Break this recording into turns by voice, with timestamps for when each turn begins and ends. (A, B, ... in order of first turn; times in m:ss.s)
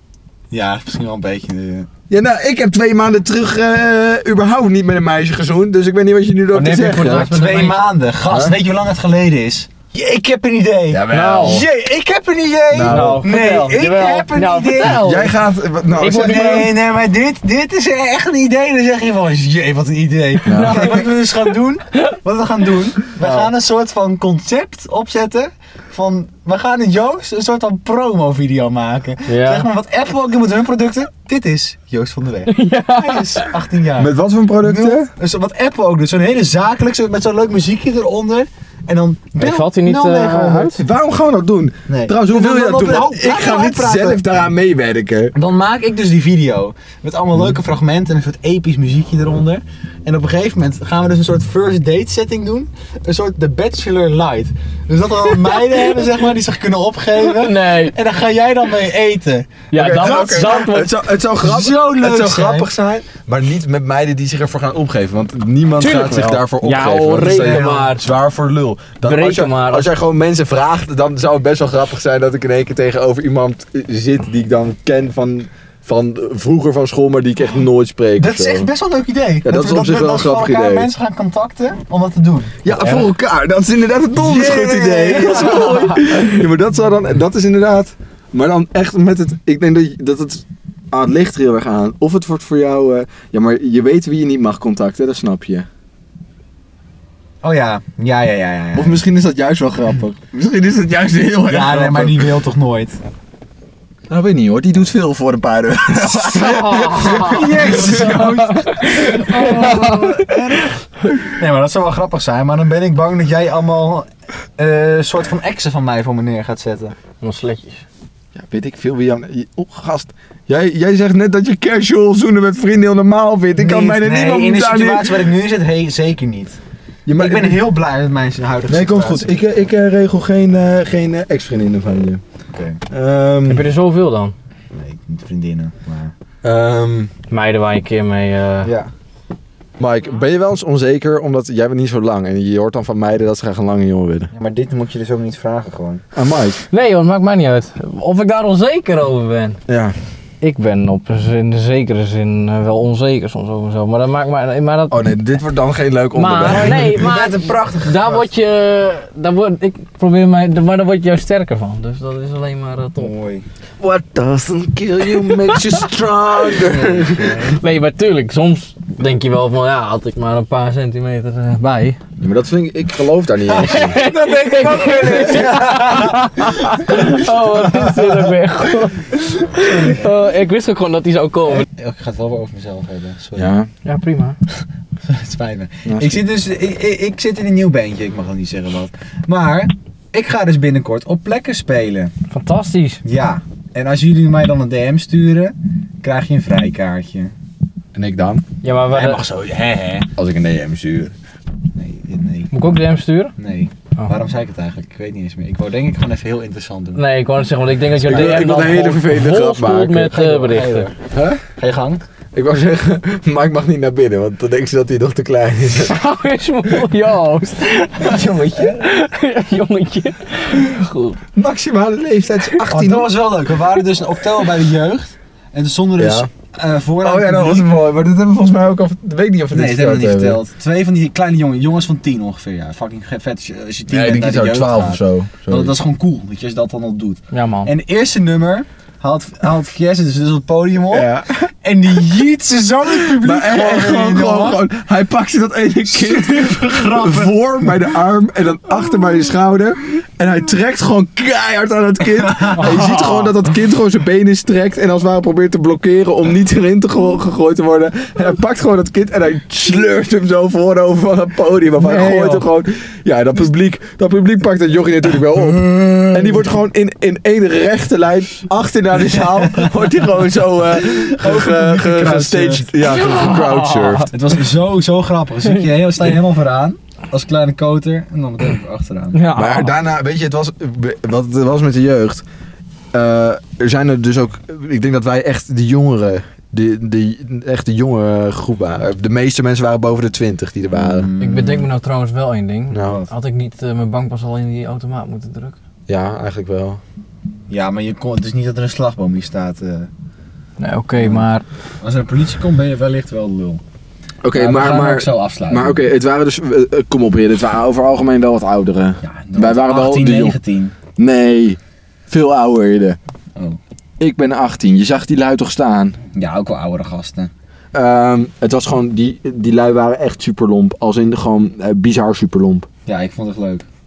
0:00.5-0:01.9 A
0:02.1-0:07.3 B
0:06.5-0:07.8 C
0:07.2-0:15.3 A
0:08.3-0:08.6 B
0:10.9-0:11.7 B
0:11.1-0:11.6 C
0:12.7-0:13.3 B
0:12.8-0:15.3 C
0:14.8-0:16.7 B
0:16.0-0:16.7 C
0:16.0-0:34.1 A
0:20.4-0:21.0 C
0:20.5-0:21.0 B
0:23.2-0:23.5 C
0:29.3-0:29.7 C
0:32.5-0:33.5 C
0:34.0-0:35.1 B
0:34.6-0:40.8 A
0:39.4-0:40.8 C
0:40.7-0:45.4 B
0:41.9-0:44.2 A
0:45.4-1:00.7 A
0:57.2-0:58.0 C
0:59.7-1:00.9 C
0:59.7-1:18.7 B
1:01.4-1:03.1 A
1:05.8-1:08.1 C
1:07.2-1:07.9 A
1:09.0-1:09.9 C
1:18.2-1:22.6 A
1:19.4-1:20.9 B
1:22.6-1:35.7 B
1:22.7-1:23.1 C
1:24.2-1:26.0 A
1:37.4-1:39.0 A
1:38.7-1:42.4 B
1:41.5-1:43.0 A
1:44.1-1:50.5 B
1:46.2-1:50.2 C
1:47.0-1:48.5 A
1:49.0-1:57.0 A
1:57.2-1:57.8 C
1:58.4-2:05.3 B
2:03.6-2:06.6 A
2:07.1-2:07.6 B
2:07.2-2:09.4 A
2:08.7-2:12.2 B
2:12.5-2:12.8 A
2:12.9-2:13.7 B
2:13.5-2:14.4 C
2:14.8-2:16.1 A
2:16.4-2:17.1 B
2:17.3-2:18.7 C
2:18.6-2:18.9 A
2:19.8-2:24.3 B
2:24.3-2:26.0 A
2:26.2-2:26.6 B
2:26.7-2:29.6 C
2:29.7-2:30.0 B
2:30.4-2:35.0 C
2:34.9-2:37.1 B
2:36.2-2:43.1 C
2:36.8-2:38.3 A
2:43.0-2:43.5 A
2:43.8-2:47.4 B
2:46.7-2:47.6 A
2:47.3-2:52.0 C
2:52.2-2:54.0 B
2:53.6-2:58.3 A
2:53.6-3:01.7 C
2:55.1-2:55.5 B
2:59.6-3:00.1 A
3:01.6-3:03.5 A
3:03.4-3:03.7 B
3:03.8-3:04.4 C
3:05.0-3:12.1 A
3:05.9-3:06.2 B
3:12.3-3:13.0 C
3:13.0-3:17.3 A
3:17.9-3:18.4 B
3:18.6-3:19.2 C
3:18.9-3:20.1 A
3:20.2-3:21.1 B
3:21.8-3:22.5 A
3:22.5-3:23.3 C
3:23.4-3:27.0 A
3:27.0-3:30.9 C
3:28.0-3:30.1 B
3:28.1-3:28.5 A
3:30.0-3:31.0 A
3:31.1-3:31.4 B
3:31.6-3:32.0 A
3:32.4-3:35.9 B
3:35.8-3:41.2 C
3:38.0-3:38.8 A
3:41.4-3:43.2 B
3:42.7-3:47.7 A
3:46.0-3:46.3 B
3:47.0-3:50.4 B
3:49.5-4:01.1 A
3:53.9-3:55.8 B
3:57.3-3:57.7 C
4:00.9-4:01.5 B
4:01.6-4:04.6 A
4:03.0-4:34.1 B
4:05.9-4:07.8 A
4:12.3-4:12.6 A
4:12.6-4:13.3 C
4:21.8-4:22.5 C
4:29.1-4:29.7 A
4:30.7-4:32.7 A
4:32.9-4:34.1 C
4:34.1-4:39.2 A
4:39.1-4:39.8 C
4:39.3-4:42.2 B
4:42.9-4:51.1 B
4:50.7-4:51.7 A
4:51.2-4:55.6 C
4:52.7-4:53.0 B
4:55.9-4:56.8 B
4:57.5-4:59.9 A
5:00.6-5:01.4 C
5:01.0-5:01.2 A
5:01.8-5:03.6 A
5:04.2-5:10.4 B
5:04.4-5:05.8 A
5:09.0-5:10.8 A
5:11.0-5:11.6 B
5:12.1-5:13.0 B
5:14.0-5:16.0 B
5:16.1-5:17.3 A
5:17.7-5:22.7 B
5:22.9-5:23.7 A